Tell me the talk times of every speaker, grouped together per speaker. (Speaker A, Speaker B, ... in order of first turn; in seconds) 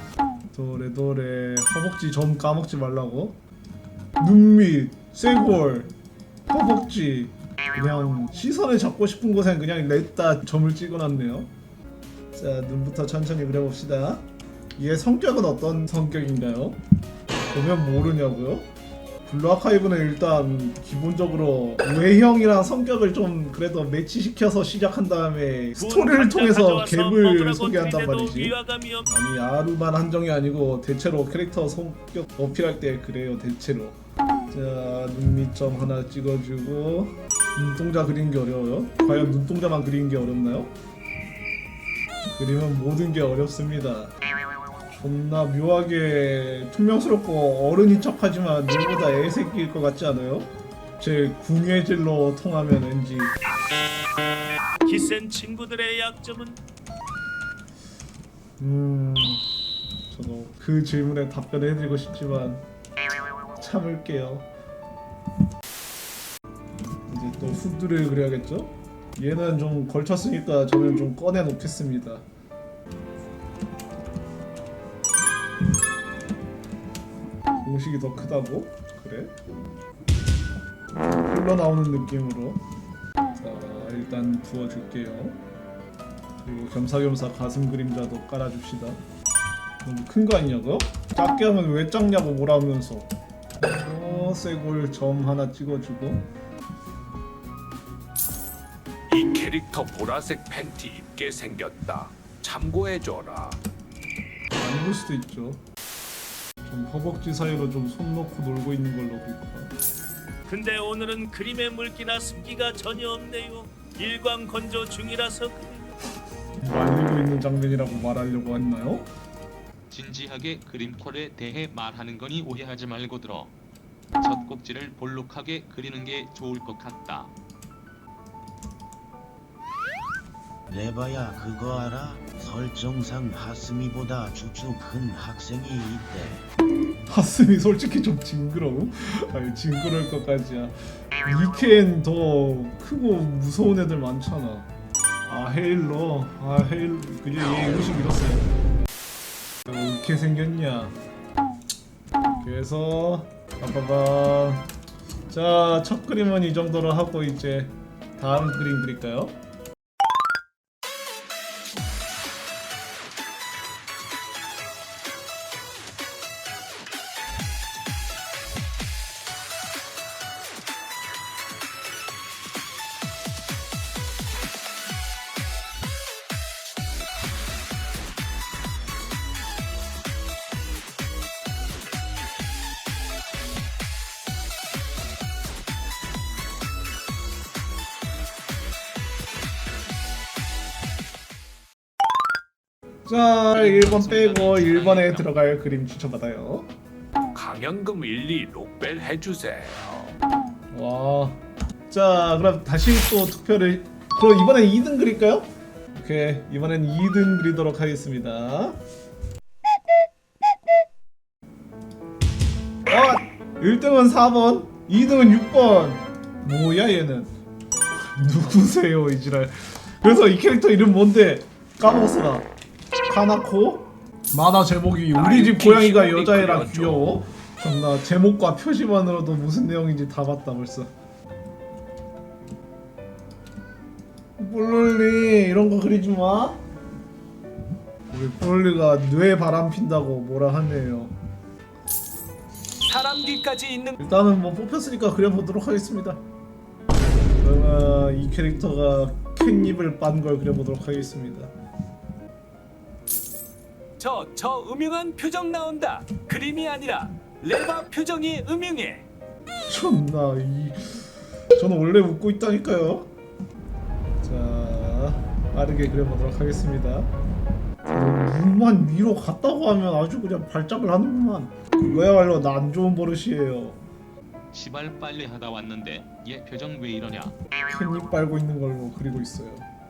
Speaker A: 0.5-3.4, 4.2-5.9, 6.5-11.5, 12.3-14.2, 14.8-16.8, 17.5-18.7, 19.2-34.0, 34.5-40.7, 42.2-44.1, 44.9-53.4, 58.6-59.4, 60.1-62.6, 63.6-64.5, 67.1-72.2, 77.6-79.3, 81.1-82.6, 83.4-85.4, 86.4-89.0, 89.8-96.2, 104.6-105.6, 106.6-109.7, 116.6-119.1, 137.1-144.7, 145.3-148.5, 149.7-151.0, 152.4-154.7, 155.3-159.3, 193.1-196.7, 200.7-208.8, 212.9-217.3, 218.1-222.5, 223.1-230.9, 234.4-236.6, 238.1-241.1, 244.0-246.2, 247.4-251.5, 259.7-261.0, 261.6-263.1, 264.2-267.1, 267.9-273.8, 277.7-279.7
Speaker B: 25.8-29.1, 54.8-56.6, 110.5-115.9
Speaker C: 99.1-103.6, 197.3-200.1, 225.1-227.0, 242.8-244.0, 254.0-259.1
Speaker D: 119.9-123.5, 124.2-127.3, 193.5-195.2, 274.5-277.3
Speaker E: 130.7-136.4